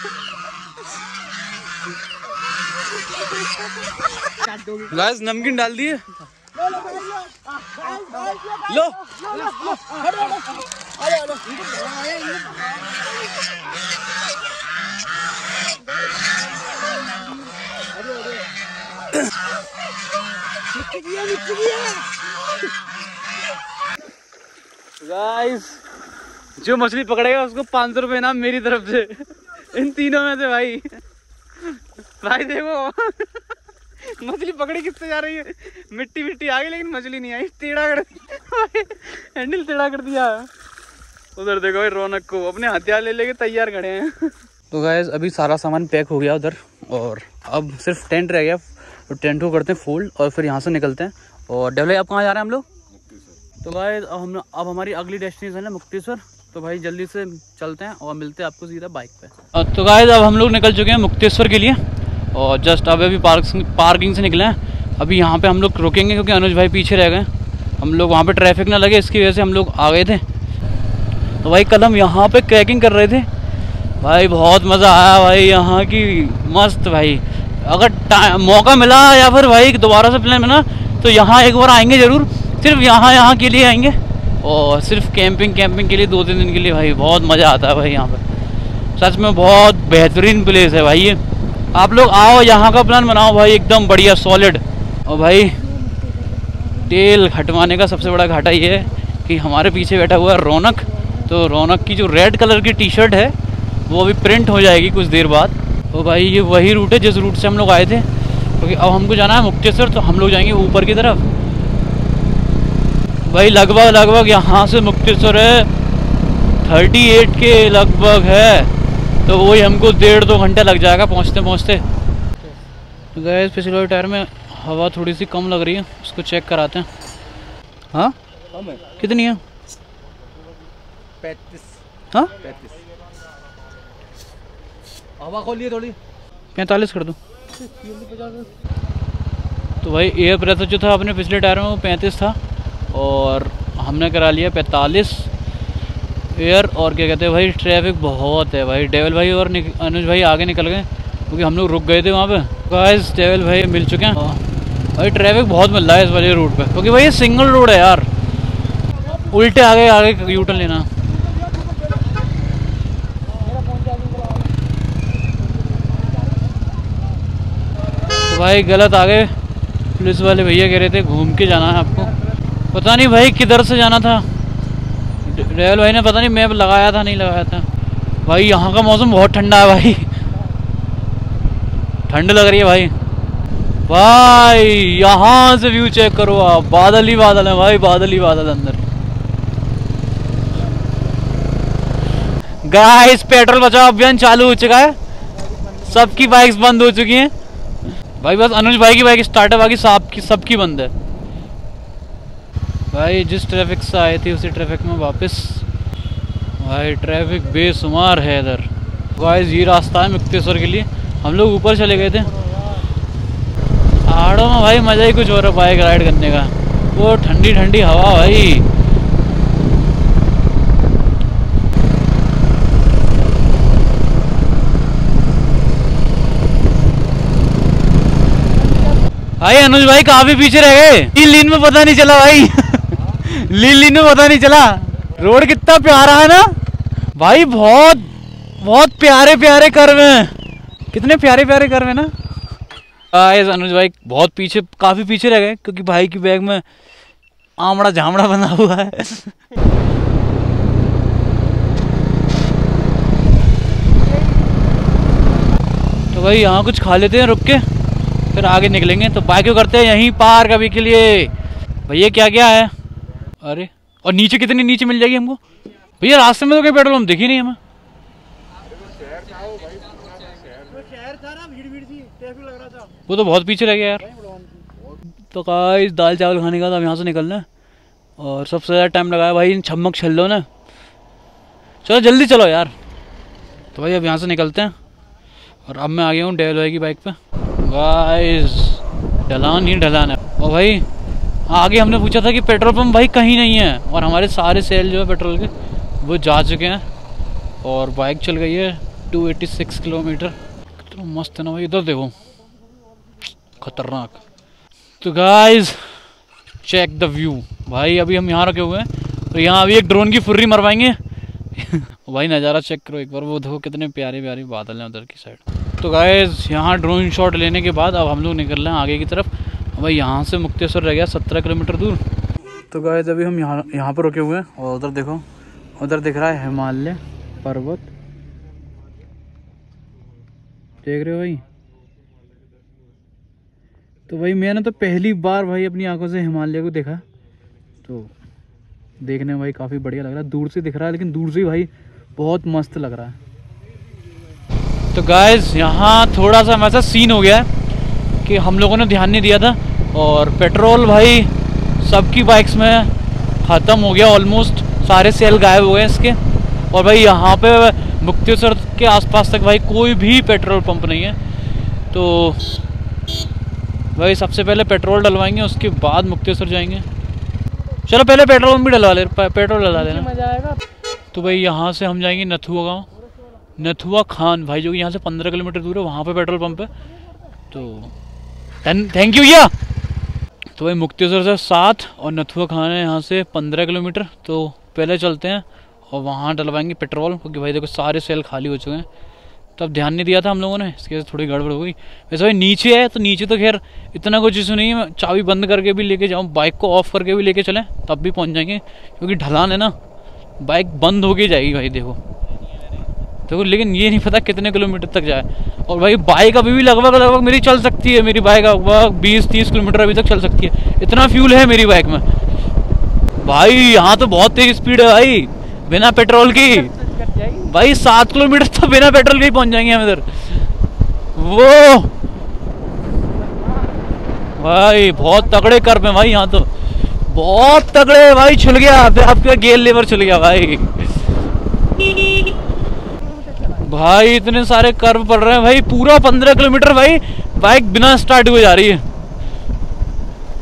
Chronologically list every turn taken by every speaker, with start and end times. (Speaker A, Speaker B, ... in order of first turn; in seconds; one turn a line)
Speaker A: 4.7-6.0
Speaker B: 6.8-7.3
Speaker B: 7.8-8.4
Speaker A: 8.5-9.7
Speaker B: 9.3-10.4
Speaker B: 11.1-12.6
Speaker B: 20.9-22.0
Speaker A: 21.5-22.0
Speaker A: 25.0-25.8
Speaker A: 26.6-31.0
Speaker A: 31.6-40.5
Speaker A: 41.4-52.7
Speaker A: 53.6-70.2
Speaker A: 71.4-73.3
Speaker A: 74.0-88.2
Speaker A: 89.0-91.2
Speaker A: 91.7-95.8
Speaker A: 96.6-103.4
Speaker A: 103.9-111.3
Speaker A: 113.3-115.7
Speaker A: 116.6-118.7
Speaker A: 119.2-121.8
Speaker A: 123.1-126.9
Speaker A: 128.8-129.4
Speaker B: 131.2-131.7
Speaker A: 132.1-132.4
Speaker B: 132.4-132.8
Speaker B: 135.2-136.0
Speaker A: 136.6-137.2
Speaker B: 137.8-138.5
Speaker A: 139.8-142.4
Speaker A: 142.9-145.3
Speaker A: 146.3-154.4
Speaker A: 154.9-158.1
Speaker A: 159.3-160.9
Speaker B: 164.0-164.3
Speaker A: 168.2-169.4
Speaker A: 169.9-172.2
Speaker A: 172.7-174.3
Speaker A: 175.2-177.7
Speaker A: 178.2-180.1
Speaker A: 182.1-182.9
Speaker A: 183.9-188.8
Speaker A: 192.6-195.0
Speaker A: 195.7-197.3
Speaker A: 198.2-200.9
Speaker A: 202.9-205.7
Speaker A: 206.6-212.4
Speaker A: 214.0-218.7
Speaker A: 229.4-236.6
Speaker A: 237.2-240.4
Speaker A: 240.9-242.2
Speaker A: 243.1-246.7
Speaker A: 247.6-249.4
Speaker A: 256.1-257.7
Speaker A: 258.3-261.3
Speaker A: 261.9-262.7
Speaker A: 263.4-265.4
Speaker A: 266.0-267.6
Speaker B: 268.8-272.1
Speaker A: 273.1-274.1
Speaker A: 275.3-277.5
Speaker A: 278.2-280.5
Speaker A: 281.8-282.7
Speaker A: 283.7-284.8
Speaker A: 285.7-290.9
Speaker A: 291.5-296.9
Speaker A: 297.6-302.2
Speaker A: 303.6-304.2
Speaker A: 305.0-306.1
Speaker A: 306.6-311.0
Speaker A: 311.6-322.0
Speaker A: 322.7-325.3
Speaker A: 325.8-327.9
Speaker A: 330.8-331.4
Speaker A: 334.1-337.0
Speaker A: 337.8-338.1
Speaker A: 339.0-343.2
Speaker A: 344.9-347.5
Speaker A: 348.2-356.2
Speaker A: 356.7-361.2
Speaker A: 361.9-362.6
Speaker A: 363.9-366.9
Speaker A: 367.9-370.1
Speaker B: 370.1-370.6
Speaker A: 371.1-372.9
Speaker A: 373.6-376.8
Speaker A: 377.5-377.9
Speaker A: 378.6-379.5
Speaker A: 380.5-388.9
Speaker A: 389.6-399.8
Speaker A: 400.4-402.0
Speaker A: 403.3-412.1
Speaker A: 413.2-420.5
Speaker A: 421.1-421.9
Speaker A: 424.3-431.1
Speaker A: 431.7-432.3
Speaker A: 433.4-438.8